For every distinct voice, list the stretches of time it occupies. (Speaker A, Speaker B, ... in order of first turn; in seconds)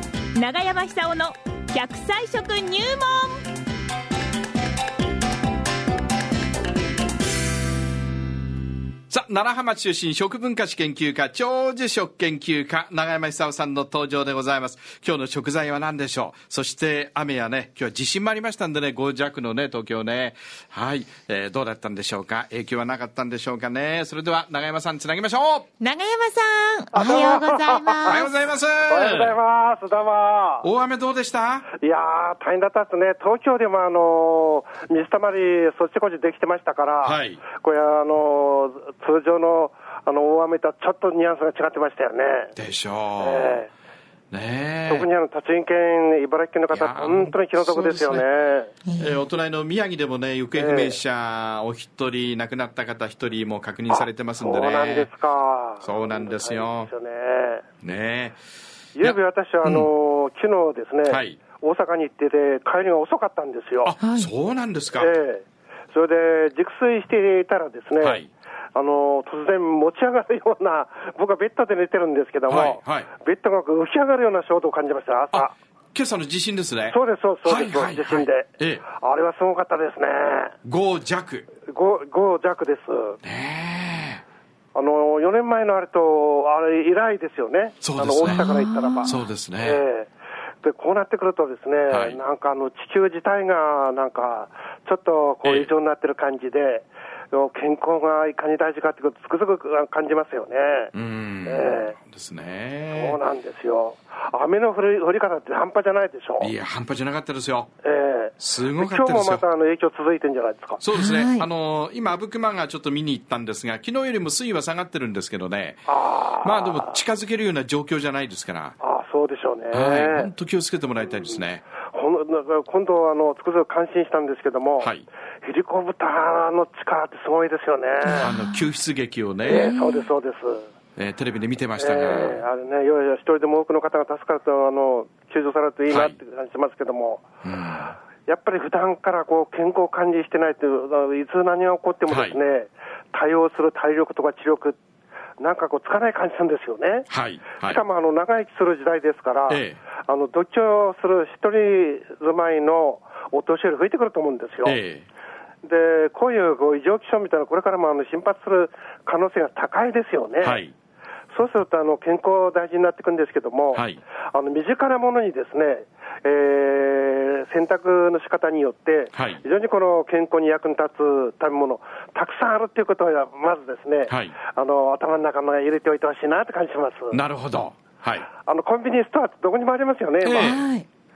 Speaker A: 0.3-3.4, 25.8-28.2, 64.0-64.3, 88.2-89.2, 110.9-111.5, 129.5-130.1, 180.3-180.8
Speaker B: 9.1-25.7, 28.0-29.4, 30.6-31.7, 37.0-37.4, 42.5-43.6, 44.3-45.1, 46.7-48.2, 48.9-55.1, 55.8-56.9, 57.8-58.4, 59.0-59.9, 61.0-61.4, 63.8-65.1, 68.0-68.3, 72.5-73.1, 75.3-78.8, 80.6-81.5, 83.2-84.2, 87.8-89.8, 91.9-92.2, 95.4-95.7, 100.9-103.2, 106.4-107.7, 108.4-109.4, 110.8-118.8, 119.7-121.6, 124.8-125.0, 128.1-129.7, 131.0-132.4, 135.9-136.2, 137.4-137.9, 142.1-142.4, 147.1-147.8, 149.5-149.8, 154.6-155.0, 160.4-160.7, 163.7-164.0, 169.1-169.4, 174.1-174.3, 177.1-178.3, 180.2-180.6
Speaker C: 26.9-28.2, 28.9-30.6, 31.8-42.5, 43.2-43.7, 44.9-48.7, 50.5-51.0, 53.9-57.6, 58.9-63.9, 64.9-68.2, 68.7-75.5, 76.9-80.5, 81.6-83.2, 84.7-90.1, 90.6-100.9, 101.4-102.0, 102.9-106.5, 107.8-110.8, 115.9-117.0, 118.8-120.3, 121.9-124.9, 125.4-128.3, 129.4-130.7, 131.8-137.2, 138.2-144.8, 145.4-147.1, 147.6-154.8, 155.6-160.6, 161.3-177.2, 178.4-180.6